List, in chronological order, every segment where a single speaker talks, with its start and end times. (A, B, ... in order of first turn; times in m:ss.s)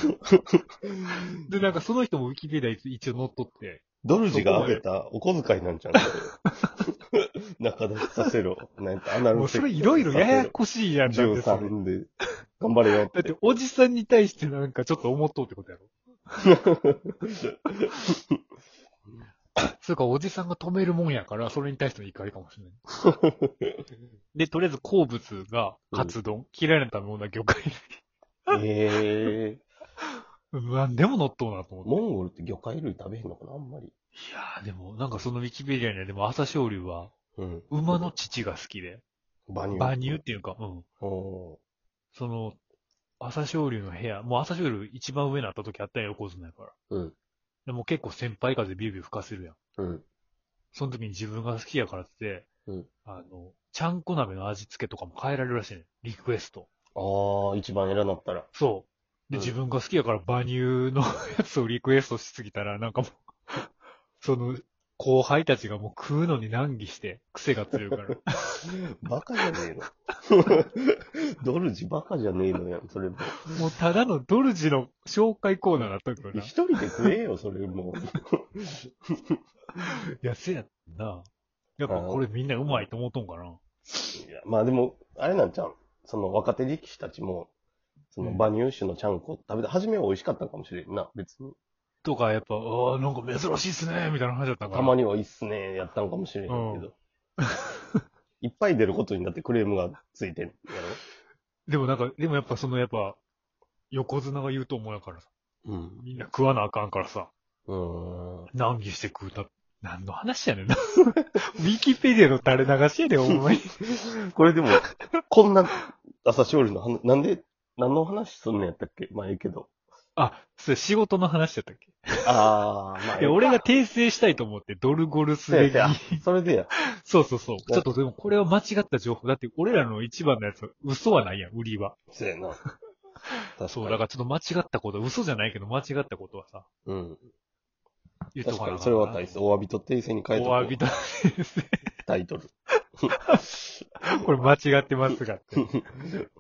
0:00.3-0:01.2 A
0:01.4-0:04.8 B
0:04.0-0:06.3 A
0:06.0-0:06.7 B
0:07.1-0:12.1 A
0:09.3-0:11.7 B
0:12.6-0:13.4 A
0:13.1-0:16.5 B
0:16.4-0:17.8 A
0:19.6-0:22.8 B
0:23.0-0:23.8 A
0:24.3-0:28.6 B
0:28.5-0:29.6 A
0:30.5-0:32.0 B
0:31.8-0:33.9 A
0:34.2-0:37.1 B
0:37.4-0:37.7 A
0:37.7-0:39.0 B
0:39.5-0:40.0 A
0:39.7-0:40.8 B
0:41.0-0:41.6 A
0:42.1-0:42.6 B
0:43.2-0:46.7 B
0:46.9-0:47.2 A
0:47.7-0:49.6 B
0:49.8-0:50.0 A
0:50.7-0:52.5 B
0:53.1-0:56.7 B
0:57.0-0:58.5 A
0:58.5-1:03.7 B
1:04.2-1:08.6 B
1:08.6-1:13.5 A
1:13.4-1:17.2 B
1:16.3-1:19.4 A
1:19.8-1:21.3 B
1:21.8-1:24.2 B
1:21.9-1:22.2 A
1:24.2-1:27.5 A
1:28.1-1:31.6 A
1:32.0-1:35.0 B
1:34.7-1:37.0 A
1:36.5-1:36.9 B
1:38.4-1:41.0 A
1:41.7-1:43.2 B
1:43.9-1:45.3 B
1:45.6-1:46.0 A
1:46.0-1:47.3 B
1:47.7-1:48.5 A
1:48.5-1:53.9 B
1:53.3-1:59.7 A
2:00.2-2:02.3 B
2:02.2-2:03.6 A
2:03.2-2:06.2 B
2:05.5-2:06.7 A
2:06.9-2:12.0 B
2:12.1-2:12.6 A
2:13.6-2:14.0 A
2:13.6-2:16.7 B
2:16.9-2:17.2 A
2:18.4-2:19.3 B
2:18.4-2:20.8 A
2:20.3-2:21.8 B
2:22.1-2:22.5 A
2:24.1-2:25.8 B
2:24.1-2:24.5 A
2:25.6-2:26.3 A